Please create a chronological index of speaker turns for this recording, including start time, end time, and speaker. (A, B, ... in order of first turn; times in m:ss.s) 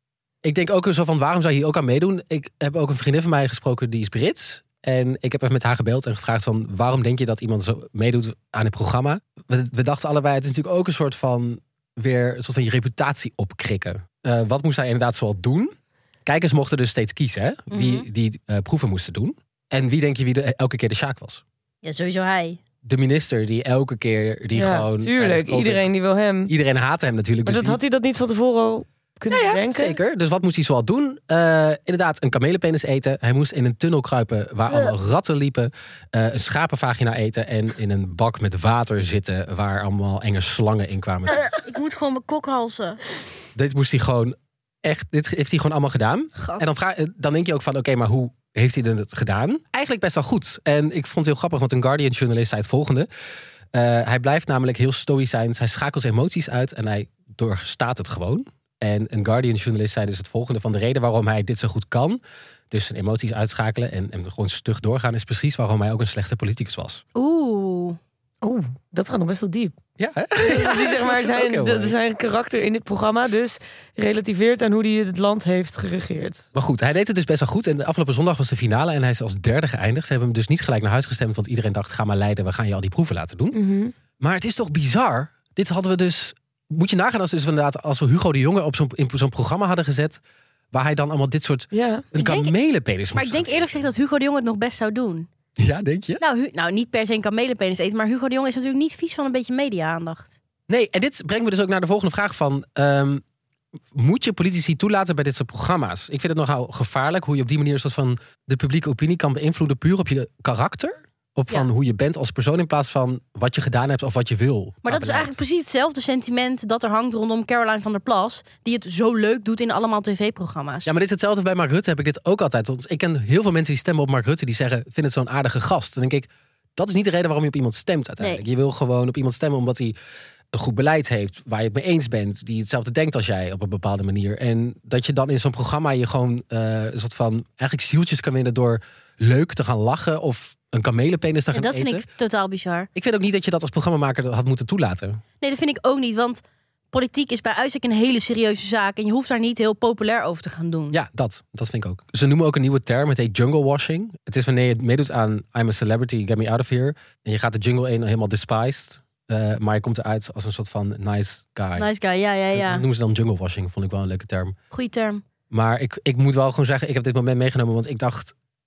0:00.4-0:15.7 A
0:16.2-0:21.4 A
0:17.7-0:18.0 B
0:21.8-0:22.6 B
0:22.8-0:25.9 A
0:24.5-0:26.5 C
0:26.4-0:27.8 A
0:27.4-0:30.0 C
0:29.3-0:41.4 A
0:41.3-0:43.0 B
0:43.5-0:53.1 A
0:46.4-0:46.6 B
0:53.7-1:02.2 A
1:02.7-1:07.0 A
1:07.1-1:08.0 B
1:08.4-1:09.8 C
1:10.0-1:12.0 A
1:10.4-1:16.4 C
1:16.5-1:23.6 A
1:23.5-1:23.9 C
1:24.2-1:30.2 A
1:30.7-1:33.8 A
1:31.7-1:32.0 C
1:32.2-1:32.5 B
1:33.1-1:35.3 B
1:35.6-1:36.2 A
1:36.2-1:40.4 B
1:40.7-1:43.2 A
1:43.9-1:55.4 A
1:54.8-2:00.9 B
2:00.8-2:09.9 A
2:10.5-2:22.0 A
2:21.5-2:22.9 B
2:22.9-2:25.2 A
2:25.4-2:31.0 B
2:30.9-2:41.9 A
2:41.8-2:42.8 B
2:42.5-2:44.6 A
2:44.7-2:45.2 B
2:45.5-2:48.3 A